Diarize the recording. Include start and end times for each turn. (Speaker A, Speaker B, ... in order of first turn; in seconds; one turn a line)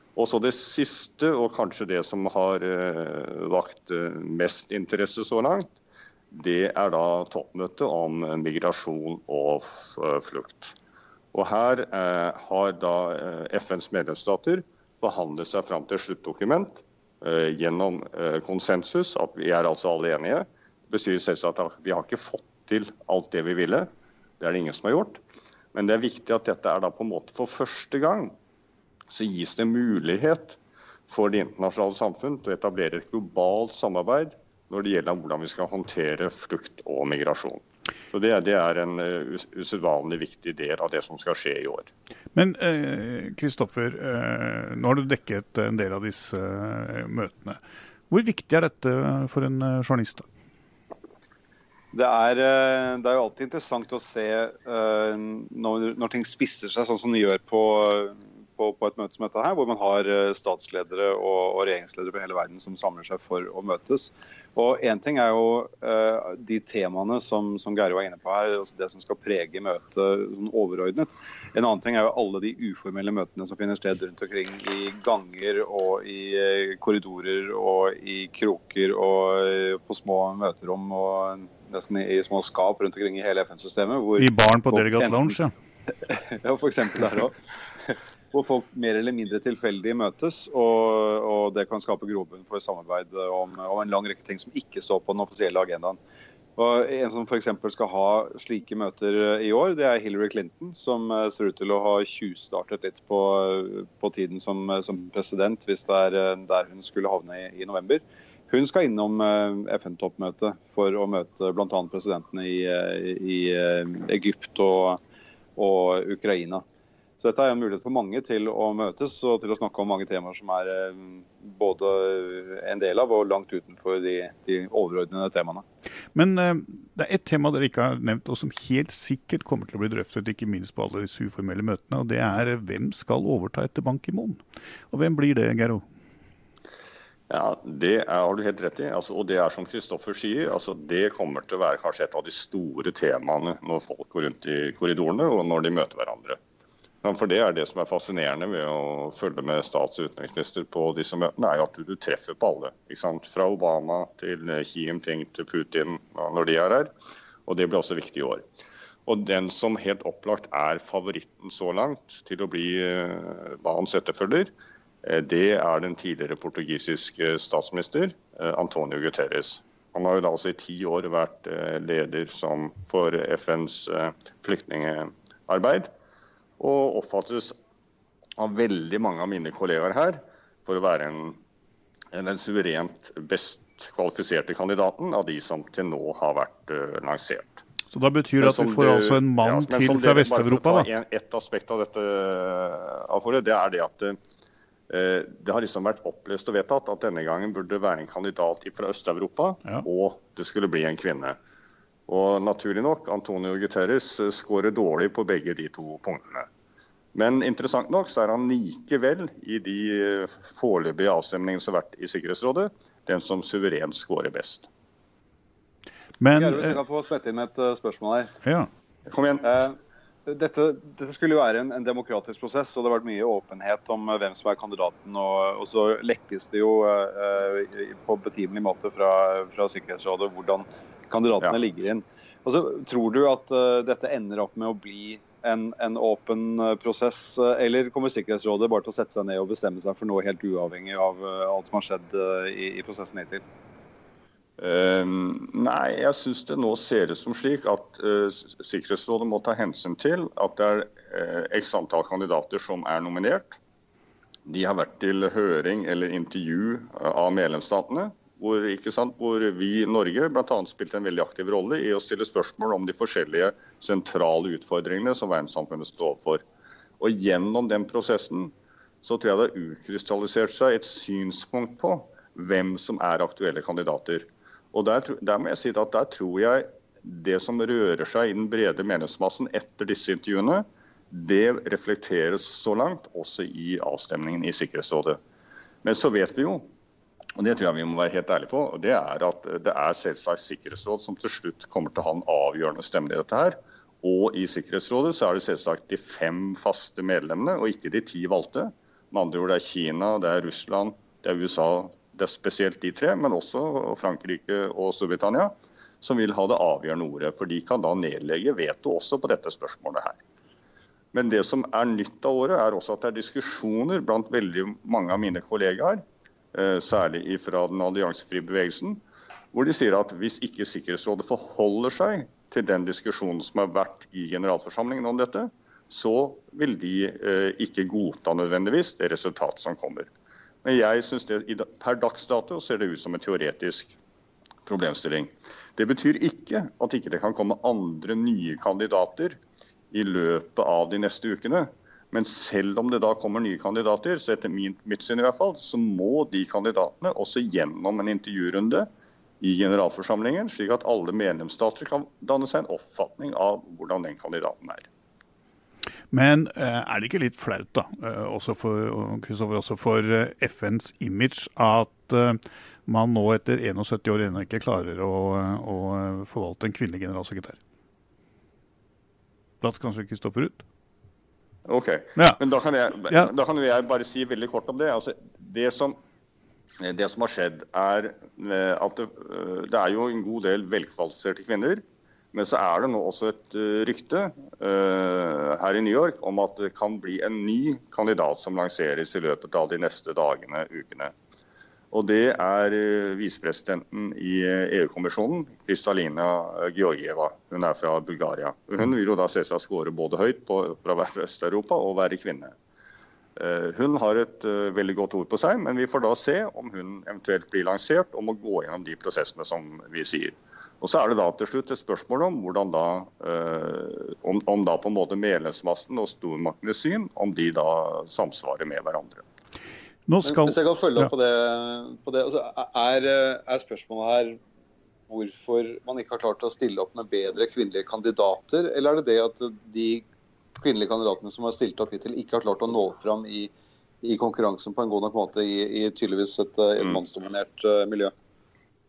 Speaker A: 0.2-5.7
Speaker A: 6.3-10.8
Speaker A: 11.3-23.9
Speaker A: 24.4-25.2
Speaker A: 25.7-28.4
Speaker A: 29.1-41.9
Speaker B: 42.3-50.3
Speaker C: 51.9-85.3
Speaker B: 84.2-85.5
Speaker C: 85.9-96.0
Speaker C: 96.6-115.0
Speaker C: 115.6-116.6
Speaker C: 117.2-125.6
Speaker B: 126.1-135.9
Speaker A: 137.3-146.4
Speaker A: 147.0-156.9
Speaker A: 157.4-158.4
Speaker A: 159.1-164.5
Speaker A: 165.0-175.9
Speaker A: 176.6-177.6
Speaker A: 178.4-181.4
Speaker A: 182.1-187.6
Speaker B: 187.9-190.9
Speaker A: 188.4-194.2
Speaker A: 194.9-201.4
Speaker A: 202.1-206.5
Speaker A: 207.1-214.7
Speaker B: 216.2-216.8
Speaker C: 216.3-218.3
Speaker B: 218.4-218.7
Speaker A: 219.1-219.5
Speaker C: 219.4-243.4
Speaker A: 244.6-253.6
Speaker A: 254.4-266.4
Speaker A: 267.0-285.2
Speaker A: 285.8-286.7
Speaker A: 287.4-310.2
Speaker A: 311.1-316.0
Speaker A: 316.5-319.0
Speaker A: 319.5-330.1
Speaker A: 330.6-334.0
Speaker A: 334.6-339.4
Speaker A: 339.9-348.9
Speaker A: 349.4-354.9
Speaker B: 356.1-367.6
Speaker B: 369.6-370.6
Speaker A: 371.6-376.0
Speaker A: 376.8-391.1
Speaker A: 391.9-402.5
Speaker A: 403.4-419.2
Speaker B: 420.1-421.1
Speaker C: 420.2-424.4
Speaker C: 425.1-430.0
Speaker C: 430.5-433.5
Speaker C: 434.0-438.1